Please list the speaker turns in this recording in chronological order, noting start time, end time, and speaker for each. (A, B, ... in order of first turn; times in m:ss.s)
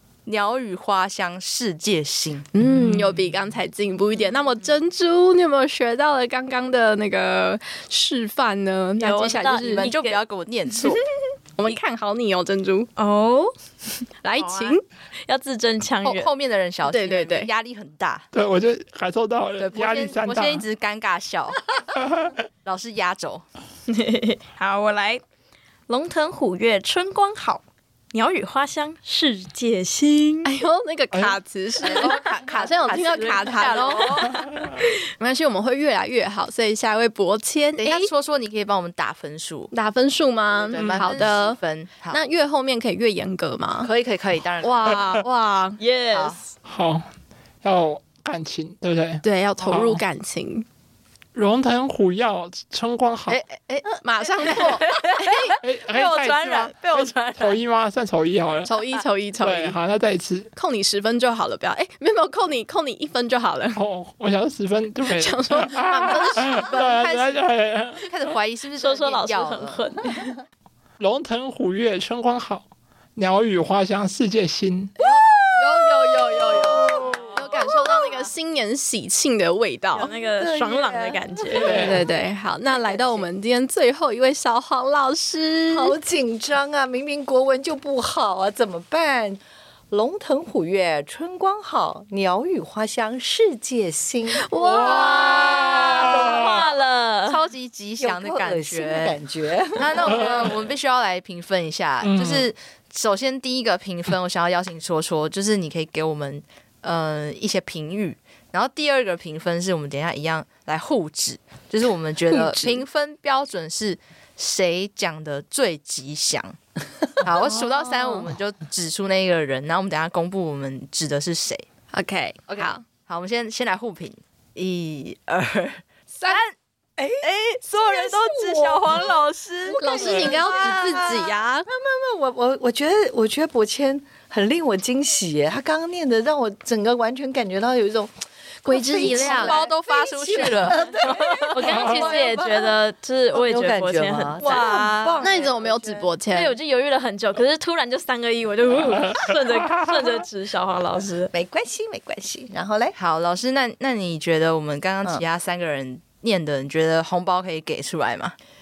0:00.2-0:02.5 A
0:02.5-0:09.9 B
0:02.7-0:03.2 C
0:09.0-0:10.2 D
0:09.7-0:11.0 A
0:11.6-0:12.9 B
0:13.0-0:13.5 D
0:14.2-0:14.8 B
0:14.4-0:16.3 D
0:16.0-0:18.3 A
0:16.9-0:17.5 B
0:18.3-0:20.6 C
0:19.6-0:21.8 A
0:22.6-0:23.4 A
0:23.9-0:25.2 D
0:25.9-0:30.5 D
0:30.4-0:34.2 B
0:31.8-0:34.5 A
0:35.2-0:38.1 B
0:37.8-0:39.7 A
0:39.7-0:41.6 B
0:40.6-0:42.2 A
0:40.8-0:41.3 C
0:42.1-0:43.9 B
0:43.8-0:44.9 A
0:44.6-0:45.8 B
0:45.8-0:46.5 D
0:46.1-0:46.4 A
0:46.6-0:47.1 C
0:47.6-0:50.0 C
0:49.2-0:50.7 B
0:51.3-0:53.4 C
0:53.3-0:57.6 A
0:54.0-0:55.5 B
0:55.6-0:58.7 C
0:58.6-0:59.8 B
0:59.4-1:00.5 C
1:00.6-1:03.8 B
1:03.7-1:08.0 C
1:05.1-1:07.1 B
1:05.9-1:07.4 A
1:08.0-1:09.8 A
1:08.8-1:10.3 D
1:11.0-1:14.9 C
1:15.0-1:20.1 B
1:16.4-1:17.7 E
1:19.9-1:21.8 D
1:20.0-1:21.8 E
1:21.6-1:22.0 C
1:21.6-1:25.9 B
1:22.7-1:23.2 E
1:25.7-1:29.4 E
1:29.9-1:36.3 E
1:34.6-1:36.5 C
1:34.7-1:35.5 B
1:35.6-1:36.3 A
1:35.8-1:37.4 D
1:37.3-1:39.2 A
1:38.0-1:40.2 E
1:39.8-1:56.6 A
1:42.0-1:42.5 C
1:52.3-1:52.8 B
1:57.2-2:01.7 A
2:01.9-2:02.8 B
2:02.5-2:06.5 A
2:07.0-2:22.8 E
2:07.2-2:10.7 A
2:09.8-2:11.7 B
2:18.7-2:19.6 B
2:19.0-2:21.7 A
2:21.5-2:24.8 D
2:23.3-2:26.1 E
2:24.4-2:25.2 A
2:25.2-2:26.5 B
2:26.3-2:31.3 D
2:31.3-2:33.0 E
2:33.0-2:38.4 A